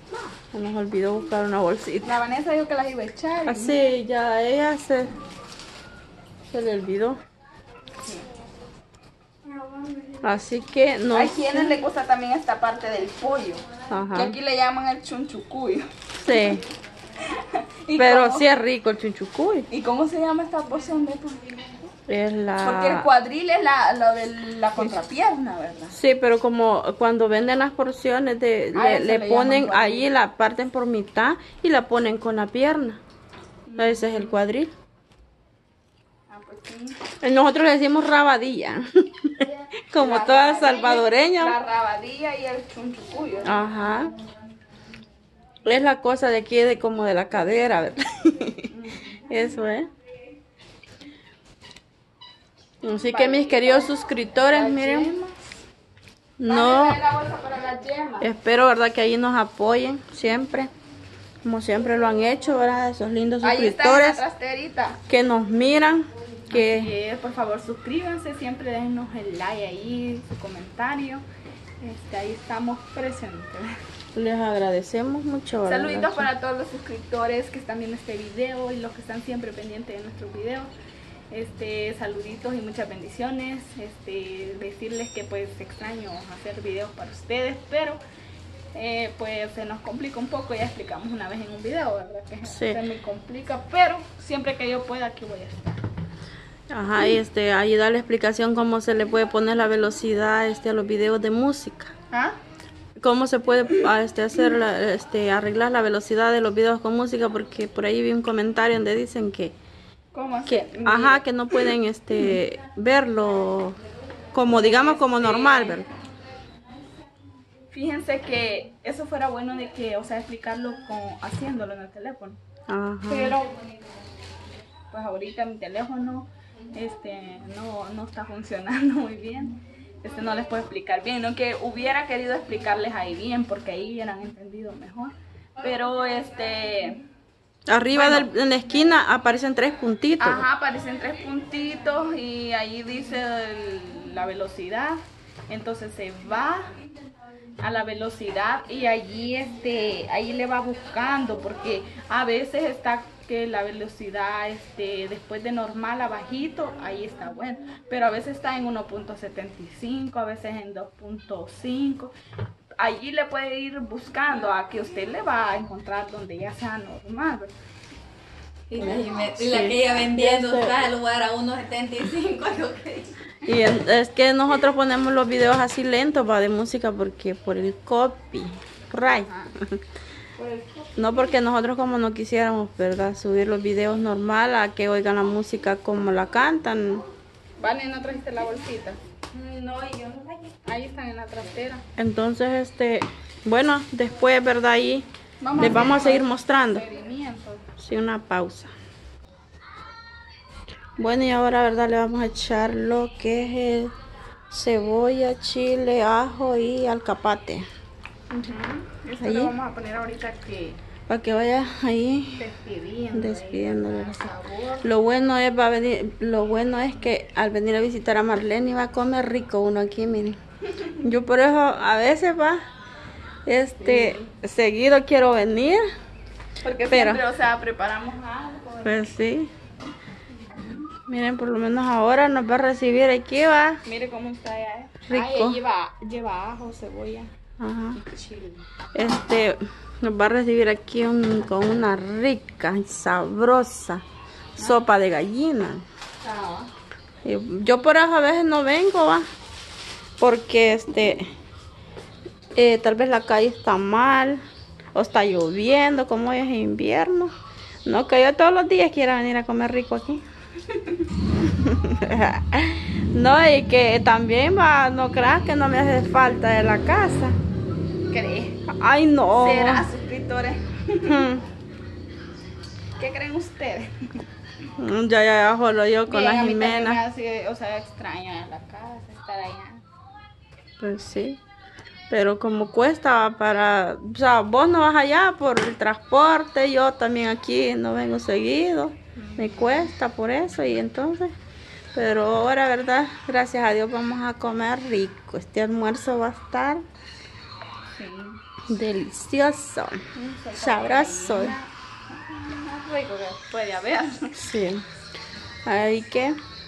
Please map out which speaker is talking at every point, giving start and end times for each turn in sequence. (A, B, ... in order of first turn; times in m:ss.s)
0:00.5-0:02.1 A
0:02.0-0:03.9 B
0:03.5-0:05.1 A
0:06.5-0:07.2 A
0:09.6-0:10.2 B
0:10.2-0:11.8 A
0:11.1-0:16.6 B
0:13.9-0:14.4 A
0:16.2-0:16.6 A
0:17.3-0:18.5 B
0:18.0-0:19.7 A
0:19.7-0:21.8 B
0:22.1-0:23.1 A
0:22.6-0:26.0 B
0:25.9-0:33.0 A
0:28.7-0:30.1 B
0:33.7-0:34.4 B
0:33.8-0:34.7 A
0:36.3-0:37.0 B
0:37.2-0:41.6 A
0:40.0-0:43.7 B
0:43.4-0:44.1 A
0:45.6-0:48.7 A
0:48.7-0:49.3 B
0:49.3-0:49.9 A
0:52.8-0:55.1 A
0:53.1-0:54.0 B
0:54.5-0:55.5 B
0:56.4-0:57.0 A
0:56.4-0:58.3 B
0:58.2-1:00.7 A
1:01.4-1:04.2 A
1:03.4-1:05.0 B
1:05.1-1:06.9 A
1:06.5-1:11.2 B
1:11.8-1:13.7 B
1:14.2-1:16.3 A
1:15.7-1:20.7 B
1:21.3-1:28.0 B
1:28.7-1:35.8 B
1:32.5-1:32.8 A
1:36.7-1:41.9 A
1:42.1-1:42.4 B
1:43.0-1:49.5 A
1:50.1-1:52.4 B
1:50.5-1:53.8 A
1:54.3-1:55.9 A
1:54.4-1:55.8 B
1:57.7-2:02.4 B
2:02.7-2:03.4 A
2:03.1-2:03.6 B
2:04.9-2:17.0 B
2:17.7-2:20.5 A
2:17.9-2:18.3 B
2:20.2-2:26.7 B
2:27.6-2:42.1 B
2:42.8-2:47.5 B
2:48.7-2:53.2 C
2:48.8-2:50.9 A
2:53.4-2:59.8 A
2:59.1-2:59.5 B
3:00.4-3:00.9 C
3:01.0-3:07.0 A
3:07.6-3:09.0 B
3:09.3-3:10.6 C
3:10.6-3:11.8 B
3:12.0-3:16.8 A
3:15.4-3:17.7 B
3:17.8-3:18.7 A
3:21.0-3:23.9 A
3:24.5-3:27.6 A
3:28.3-3:30.8 B
3:29.2-3:29.5 A
3:31.1-3:32.4 A
3:32.4-3:34.9 B
3:33.1-3:34.3 A
3:34.8-3:40.4 A
3:41.0-3:42.6 A
3:43.5-3:45.8 A
3:43.8-3:44.3 B
3:46.6-3:49.1 B
3:46.9-3:47.2 A
3:48.8-3:49.5 A
3:50.5-3:50.9 B
3:51.1-3:53.8 A
3:53.8-3:57.3 B
3:55.1-3:55.6 A
3:57.6-3:58.0 A
3:57.9-3:58.6 B
3:58.9-4:04.0 A
4:04.6-4:04.9 B
4:04.6-4:05.8 A
4:06.2-4:06.7 B
4:07.2-4:09.2 A
4:10.2-4:11.3 A
4:12.6-4:14.4 A
4:15.0-4:17.3 A
4:17.8-4:20.2 A
4:20.7-4:21.0 B
4:21.5-4:27.4 A
4:28.1-4:28.6 B
4:28.7-4:29.9 A
4:29.3-4:31.2 B
4:31.0-4:31.4 A
4:33.0-4:33.9 B
4:34.8-4:37.0 A
4:36.1-4:39.8 B
4:40.8-4:41.4 A
4:42.1-4:51.3 A
4:49.2-4:49.9 B
4:51.9-4:56.8 A
4:58.0-4:58.4 B
4:58.7-5:00.0 A
5:00.1-5:04.4 B
5:00.5-5:01.6 A
5:04.4-5:04.8 A
5:05.7-5:06.4 A